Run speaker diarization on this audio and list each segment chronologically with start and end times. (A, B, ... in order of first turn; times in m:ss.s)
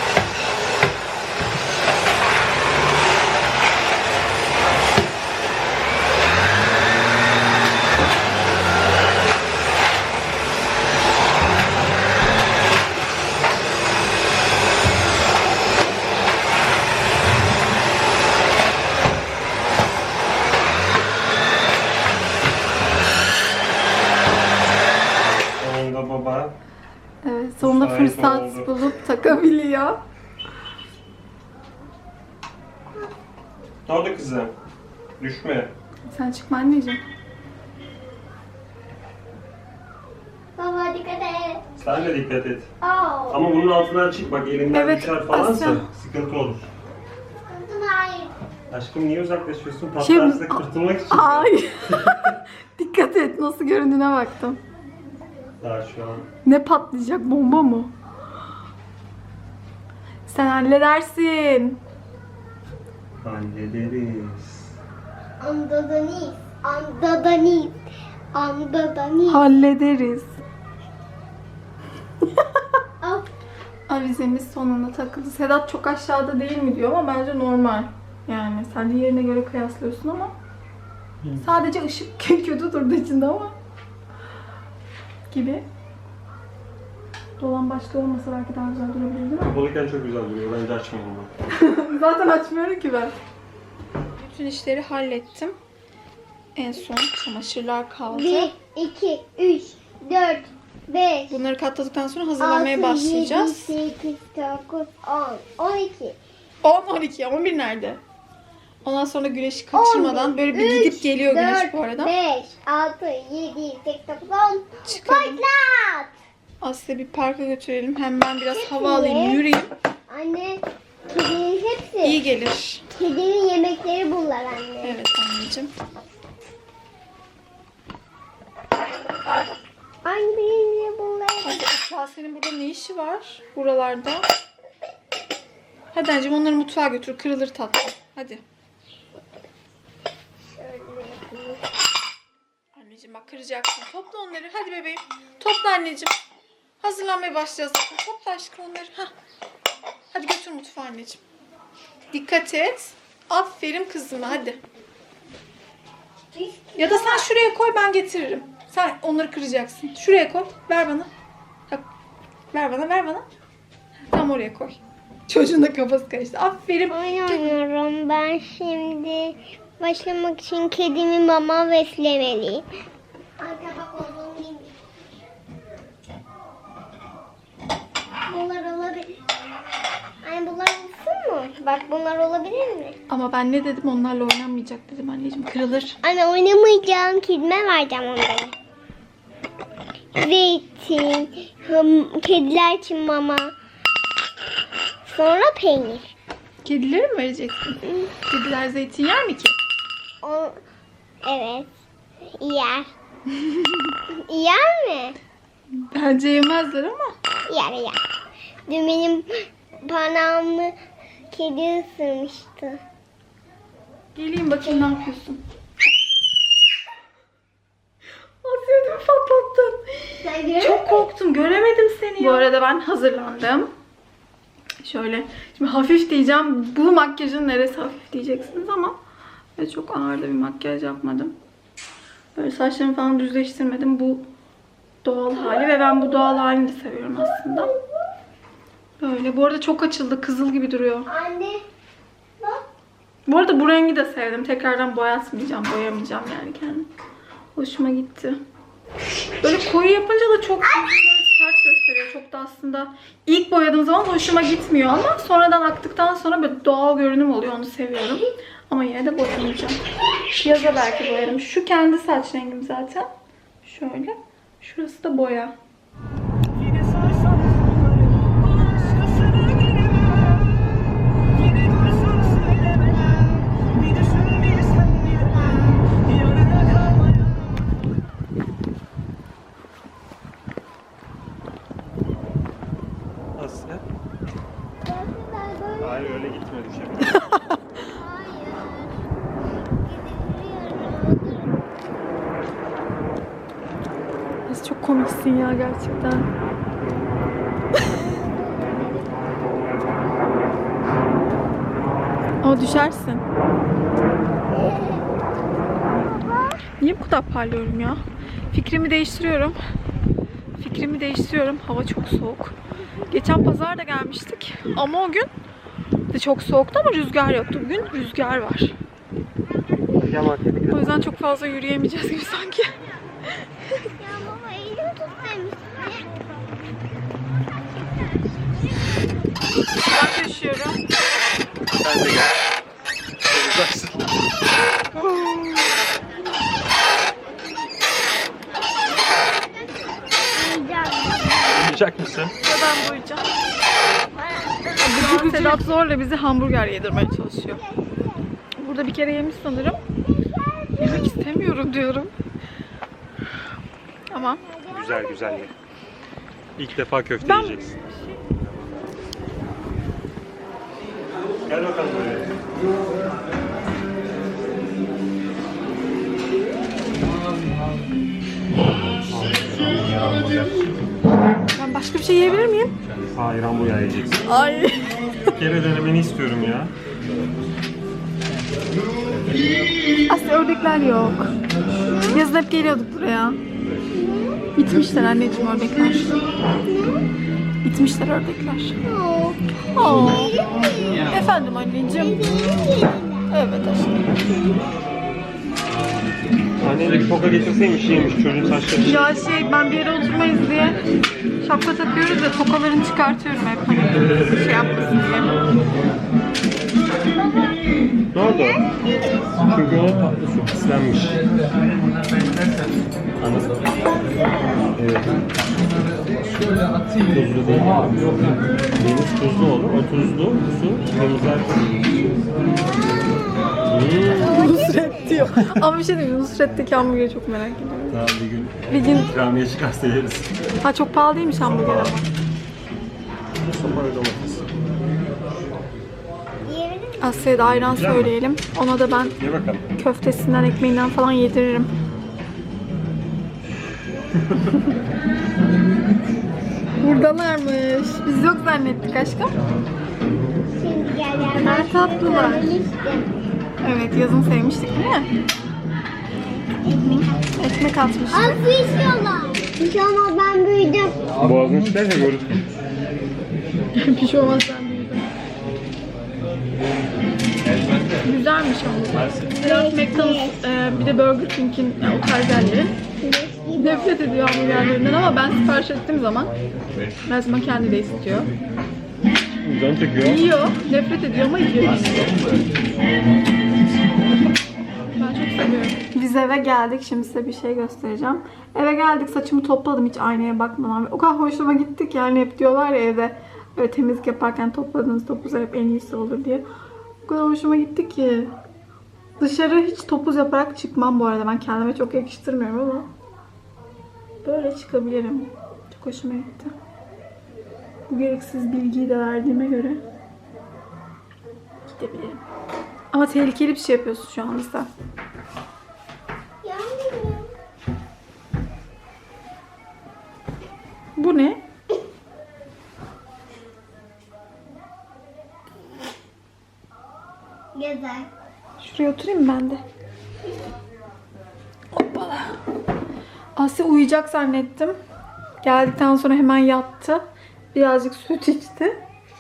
0:25.6-0:26.6 A
0:27.2-0:30.0 B
0:27.6-0:28.7 A
0:33.9-0:34.5 A
0:35.2-0:35.7 A
0:36.1-0:37.0 B
0:40.6-0:41.6 C
0:41.8-0:42.7 A
0:42.8-0:43.4 C
0:43.3-0:46.7 A
0:44.7-0:45.9 B
0:47.5-0:48.3 C
0:48.7-0:52.3 A
0:50.0-0:54.6 B
0:55.6-0:56.3 A
0:56.4-0:57.9 B
1:00.3-1:01.8 B
1:03.2-1:04.8 A
1:05.4-1:09.4 C
1:09.3-1:10.3 B
1:13.0-1:13.3 C
1:13.9-1:20.4 B
1:21.2-1:21.5 A
1:21.4-1:23.6 B
1:25.3-1:25.7 B
1:27.4-1:29.6 B
1:29.5-1:31.3 A
1:31.5-1:33.2 B
1:34.2-1:35.6 B
1:36.6-1:38.5 B
1:38.1-1:41.4 C
1:41.3-1:43.8 B
1:42.4-1:46.2 C
1:46.6-1:48.0 B
1:48.8-1:52.1 B
1:49.7-1:56.1 C
1:54.8-1:55.4 B
1:56.6-1:59.7 B
1:58.5-1:59.4 C
2:00.1-2:02.2 C
2:02.0-2:02.9 B
2:03.0-2:05.0 C
2:04.8-2:05.7 B
2:10.0-2:11.6 C
2:11.4-2:14.2 B
2:15.9-2:18.4 B
2:20.6-2:21.6 C
2:22.8-2:26.2 B
2:26.8-2:29.1 B
2:30.1-2:31.2 B
2:32.1-2:34.6 B
2:36.3-2:37.2 C
2:36.8-2:41.1 B
2:42.5-2:43.3 B
2:44.1-2:47.5 B
2:46.9-2:52.7 C
2:53.4-2:54.7 C
2:58.3-2:59.2 C
3:00.2-3:03.0 C
3:03.1-3:06.0 B
3:06.0-3:08.5 C
3:10.2-3:13.5 C
3:15.1-3:16.1 C
3:16.6-3:19.6 B
3:17.8-3:18.1 C
3:20.2-3:20.6 C
3:21.2-3:21.7 C
3:22.4-3:22.9 C
3:23.3-3:24.0 B
3:24.1-3:25.2 C
3:25.7-3:27.1 B
3:27.5-3:28.0 C
3:28.7-3:30.8 C
3:31.3-3:32.8 C
3:34.2-3:35.4 B
3:38.4-3:43.7 B
3:40.2-3:41.0 C
3:44.8-3:49.0 B
3:49.6-3:51.4 B
3:52.4-3:54.3 B
3:55.0-3:57.8 B
3:59.0-4:01.1 B
4:01.1-4:01.6 C
4:03.3-4:06.9 B
4:07.6-4:08.4 B
4:09.4-4:19.8 B
4:20.4-4:23.1 B
4:23.6-4:25.6 B
4:43.4-4:43.8 A
4:44.8-4:46.3 C
4:45.8-4:47.3 A
4:47.1-4:47.6 B
4:47.8-4:49.0 C
4:49.8-4:51.6 C
4:54.5-4:56.3 B
4:58.1-4:59.3 C
5:02.4-5:03.3 B
5:04.5-5:05.1 C
5:06.1-5:06.6 C
5:06.8-5:09.6 B
5:10.6-5:12.6 B
5:13.1-5:15.3 B
5:16.1-5:18.8 B
5:19.9-5:20.9 A
5:20.7-5:22.7 B
5:24.0-5:26.1 C
5:29.9-5:30.8 B
5:31.7-5:32.4 A
5:33.3-5:34.1 A
5:40.3-5:41.7 C
5:41.5-5:42.4 A
5:42.4-5:43.3 B
5:44.8-5:47.6 B
5:44.9-5:45.6 C
5:47.5-5:48.3 C
5:48.6-5:49.8 B
5:50.4-5:51.1 C
5:50.8-5:52.1 B
5:54.1-5:54.4 B
5:54.4-5:55.5 C
5:54.7-5:55.5 A
5:56.6-5:57.8 A
5:57.2-5:57.7 B
5:58.5-5:58.8 A
6:01.5-6:02.3 A
6:09.1-6:10.8 A
6:11.6-6:12.7 B
6:13.0-6:14.3 A
6:14.3-6:15.1 B
6:15.3-6:16.7 A
6:20.1-6:21.3 B
6:21.9-6:22.2 C
6:22.1-6:23.4 B
6:23.9-6:24.4 C
6:24.6-6:26.3 B
6:26.6-6:27.1 C
6:27.6-6:28.8 B
6:28.8-6:31.1 C
6:29.7-6:30.4 B
6:31.1-6:32.2 B
6:31.9-6:33.3 C
6:33.3-6:34.2 B
6:36.6-6:39.1 A
6:38.8-6:40.8 B
6:41.4-6:45.4 B
6:48.1-6:48.7 A
6:49.4-6:51.2 A
6:53.2-6:53.9 A
6:54.8-6:55.3 A
6:56.4-7:01.9 A
7:03.7-7:04.5 A
7:04.2-7:05.3 C
7:04.2-7:08.1 B
7:05.3-7:05.6 A
7:07.9-7:10.3 A
7:08.7-7:09.1 B
7:10.6-7:12.1 B
7:11.5-7:11.9 A
7:13.5-7:14.5 A
7:16.5-7:17.1 C
7:17.0-7:19.2 B
7:17.6-7:18.1 A
7:19.2-7:19.7 A
7:19.8-7:21.7 B
7:26.8-7:29.4 B
7:30.5-7:33.1 C
7:31.3-7:32.6 B
7:33.6-7:35.1 B
7:36.5-7:37.1 C
7:36.7-7:38.4 B
7:38.1-7:41.0 C
7:41.2-7:42.4 A
7:43.8-7:45.1 B
7:47.4-7:48.0 A
7:48.0-7:52.8 B
7:49.3-7:50.4 C
7:53.0-7:54.0 C
7:53.6-7:56.3 B
7:57.0-7:58.3 B
7:59.4-8:00.2 A
8:00.0-8:02.2 B
8:05.0-8:16.4 B
8:17.0-8:18.3 B
8:19.2-8:22.9 B
8:24.2-8:26.6 B
8:27.9-8:29.8 B
8:31.7-8:32.2 B
8:32.9-8:34.7 B
8:36.4-8:37.3 C
8:41.0-8:41.4 B
8:47.6-8:48.1 C
8:48.6-8:49.6 B
8:51.7-8:52.4 B
8:53.4-8:54.8 B
8:55.4-8:57.0 B
8:57.5-8:58.8 B